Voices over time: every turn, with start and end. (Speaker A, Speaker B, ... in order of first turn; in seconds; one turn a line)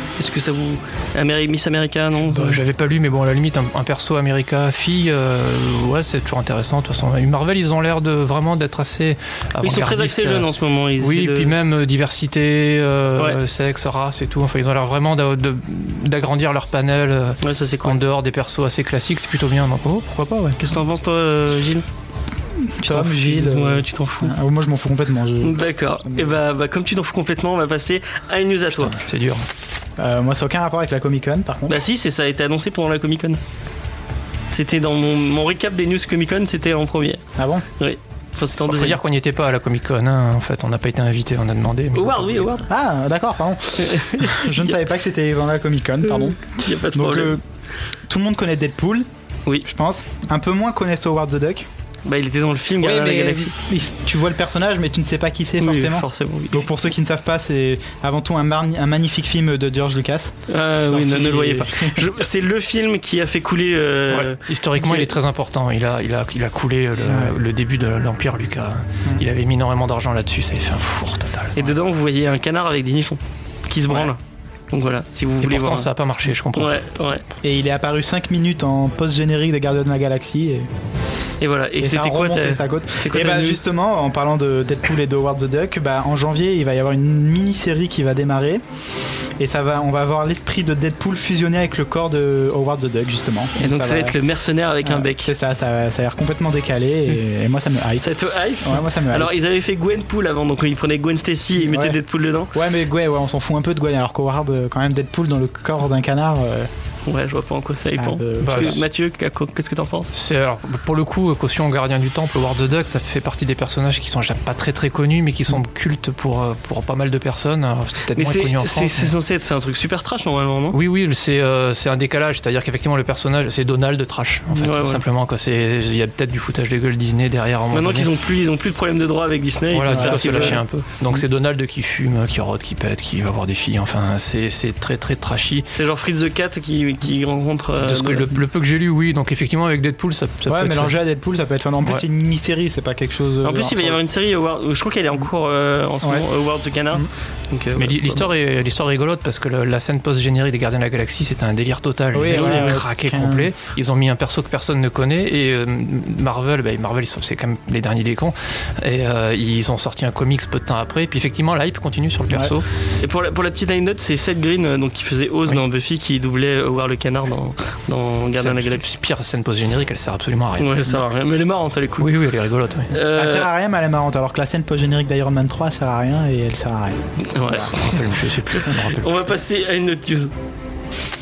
Speaker A: 0.2-2.6
Speaker B: 2.3-20.6
Speaker A: 9.6-11.5
Speaker A: 17.4-18.0
Speaker A: 20.6-21.8
Speaker C: 22.6-26.4
Speaker A: 22.8-24.4
Speaker A: 25.4-28.9
Speaker B: 28.7-29.5
Speaker C: 30.0-31.8
Speaker A: 31.7-33.4
Speaker A: 34.5-37.2
Speaker C: 37.4-37.6
Speaker A: 37.8-39.0
Speaker B: 38.7-42.6
Speaker A: 41.9-42.7
Speaker C: 42.7-47.4
Speaker A: 43.8-44.7
Speaker A: 46.0-47.4
Speaker C: 48.1-49.0
Speaker C: 49.6-51.7
Speaker A: 52.0-53.5
Speaker C: 52.8-62.1
Speaker A: 55.6-56.7
Speaker A: 60.5-65.1
Speaker B: 64.1-71.7
Speaker C: 67.0-67.3
Speaker A: 71.5-74.2
Speaker A: 74.7-75.9
Speaker B: 75.4-76.8
Speaker A: 76.5-77.2
Speaker C: 77.4-80.7
Speaker A: 81.4-83.6
Speaker C: 81.8-88.6
Speaker C: 89.4-94.2
Speaker A: 93.6-95.3
Speaker C: 94.8-99.3
Speaker A: 98.0-102.5
Speaker C: 101.6-102.0
Speaker C: 102.5-106.7
Speaker A: 107.0-110.1
Speaker C: 108.0-108.8
Speaker B: 108.4-108.8
Speaker B: 110.1-119.1
Speaker A: 118.1-120.8
Speaker B: 120.7-128.1
Speaker A: 124.5-125.0
Speaker A: 127.7-130.8
Speaker B: 129.7-135.7
Speaker C: 129.9-131.2
Speaker A: 135.7-138.3
Speaker B: 137.8-140.9
Speaker C: 140.4-144.0
Speaker A: 143.4-148.2
Speaker B: 147.8-162.7
Speaker C: 152.1-153.5
Speaker A: 163.0-168.8
Speaker B: 168.4-171.0
Speaker A: 170.6-172.1
Speaker B: 172.0-172.9
Speaker A: 172.9-173.5
Speaker C: 173.1-177.0
Speaker A: 177.2-180.3
Speaker B: 177.6-179.3